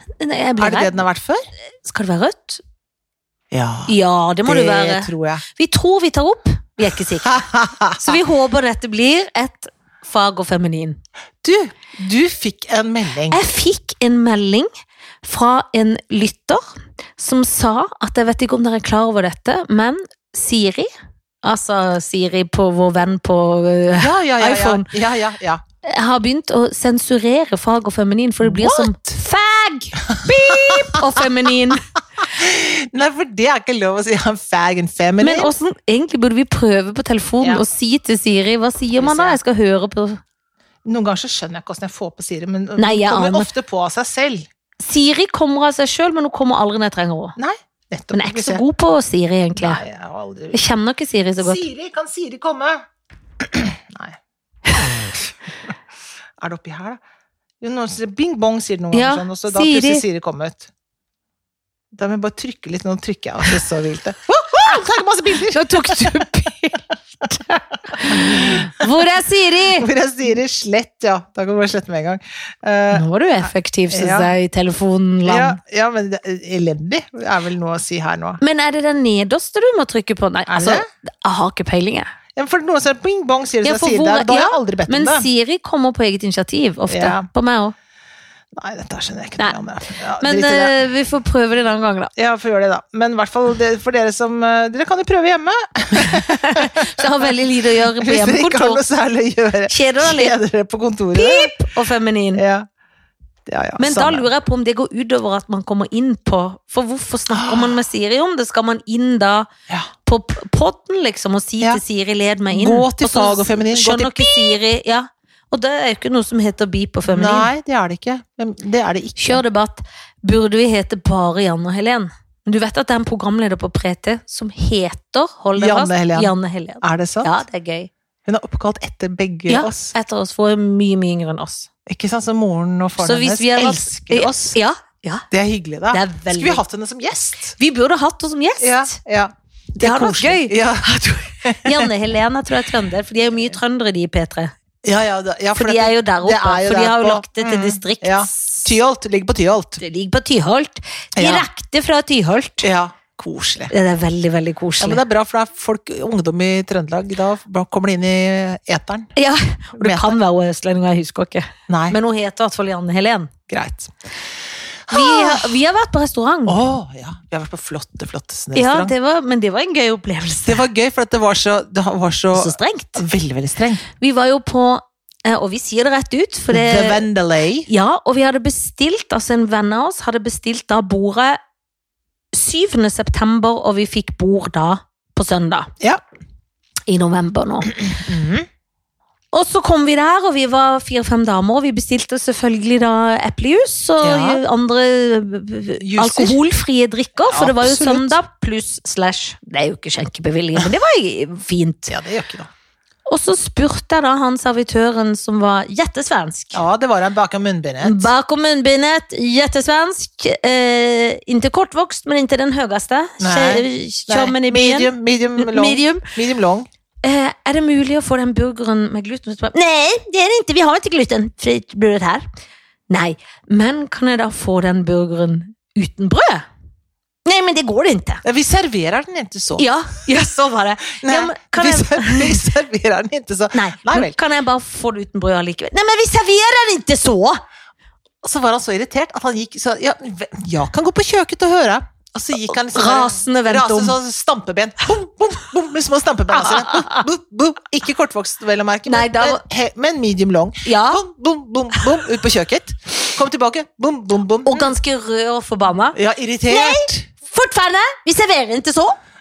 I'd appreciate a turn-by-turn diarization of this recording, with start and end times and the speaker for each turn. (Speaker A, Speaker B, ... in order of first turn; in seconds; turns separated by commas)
Speaker A: 0.2-1.0, Speaker B: 0.6-1.4, Speaker A: 1.8-2.6, Speaker B: 3.5-5.4, Speaker A: 3.9-7.4, Speaker B: 7.2-8.2, Speaker A: 8.0-11.0, Speaker B: 11.4-13.4, Speaker A: 13.3-14.7, Speaker A: 15.2-20.9, Speaker A: 21.4-24.9, Speaker B: 23.9-25.6, Speaker A: 25.8-31.8, Speaker B: 28.4-29.2, Speaker B: 30.1-31.2, Speaker B: 32.2-35.5, Speaker A: 35.2-40.2, Speaker B: 37.4-37.7, Speaker B: 39.0-39.4, Speaker B: 40.9-44.5, Speaker A: 42.8-43.5, Speaker A: 44.8-47.4, Speaker B: 47.4-48.6, Speaker A: 48.1-49.8, Speaker B: 49.5-50.6, Speaker A: 50.5-51.6, Speaker B: 51.4-52.9, Speaker B: 53.4-54.2, Speaker B: 56.4-57.0, Speaker B: 57.6-60.7, Speaker A: 58.9-60.0, Speaker B: 61.9-66.3, Speaker A: 65.5-66.8, Speaker B: 67.2-68.9, Speaker A: 67.5-69.9, Speaker B: 69.8-74.3, Speaker A: 72.9-75.6, Speaker B: 75.2-78.4, Speaker A: 78.4-82.1, Speaker B: 80.5-80.8, Speaker B: 82.4-85.3, Speaker A: 83.6-87.7, Speaker B: 86.9-87.3, Speaker B: 88.5-90.8, Speaker A: 90.2-92.1, Speaker B: 92.2-97.3, Speaker A: 96.0-98.8, Speaker B: 98.0-101.6, Speaker A: 99.7-100.3, Speaker A: 101.1-102.4, Speaker B: 102.3-102.7, Speaker B: 103.5-104.3, Speaker A: 103.8-109.5, Speaker B: 107.3-107.8, Speaker A: 110.0-117.5, Speaker B: 112.5-114.6, Speaker B: 117.1-119.4, Speaker A: 119.2-127.9, Speaker B: 125.6-127.4, Speaker B: 128.2-129.9, Speaker A: 129.5-131.7, Speaker B: 131.9-134.6, Speaker A: 133.0-135.3, Speaker B: 135.3-137.6, Speaker A: 135.9-136.6, Speaker A: 137.6-138.9, Speaker B: 138.6-141.9, Speaker A: 139.8-140.6, Speaker A: 141.5-144.5, Speaker B: 144.8-149.8, Speaker A: 145.6-148.7, Speaker A: 149.8-152.7, Speaker B: 151.2-151.5, Speaker B: 152.6-153.7, Speaker A: 153.7-155.0, Speaker B: 154.8-159.1, Speaker A: 159.2-163.3, Speaker B: 159.8-160.2, Speaker B: 161.7-162.0, Speaker B: 163.5-163.9, Speaker B: 164.9-165.6, Speaker A: 164.9-166.6, Speaker B: 166.5-168.9, Speaker A: 168.6-170.7, Speaker B: 170.4-173.8, Speaker A: 172.3-173.0, Speaker A: 174.0-177.1, Speaker B: 176.5-177.7, Speaker A: 177.7-181.4, Speaker A: 182.3-185.7, Speaker A: 186.9-187.8, Speaker B: 187.7-188.5, Speaker A: 189.3-201.9, Speaker B: 194.0-194.4, Speaker B: 195.8-196.4, Speaker B: 197.3-198.2, Speaker B: 201.9-202.5, Speaker A: 203.1-206.6, Speaker B: 206.5-208.1, Speaker A: 207.8-216.1, Speaker B: 213.2-216.7, Speaker A: 217.0-222.3, Speaker A: 222.9-226.4, Speaker A: 227.3-228.2, Speaker B: 228.2-229.7, Speaker A: 229.6-232.4, Speaker B: 231.0-234.2, Speaker A: 233.5-237.4, Speaker B: 238.2-254.7, Speaker A: 242.5-244.0, Speaker A: 246.4-247.0, Speaker A: 248.9-249.4, Speaker A: 250.7-251.0, Speaker A: 254.4-256.0, Speaker B: 255.9-257.1, Speaker A: 256.5-259.0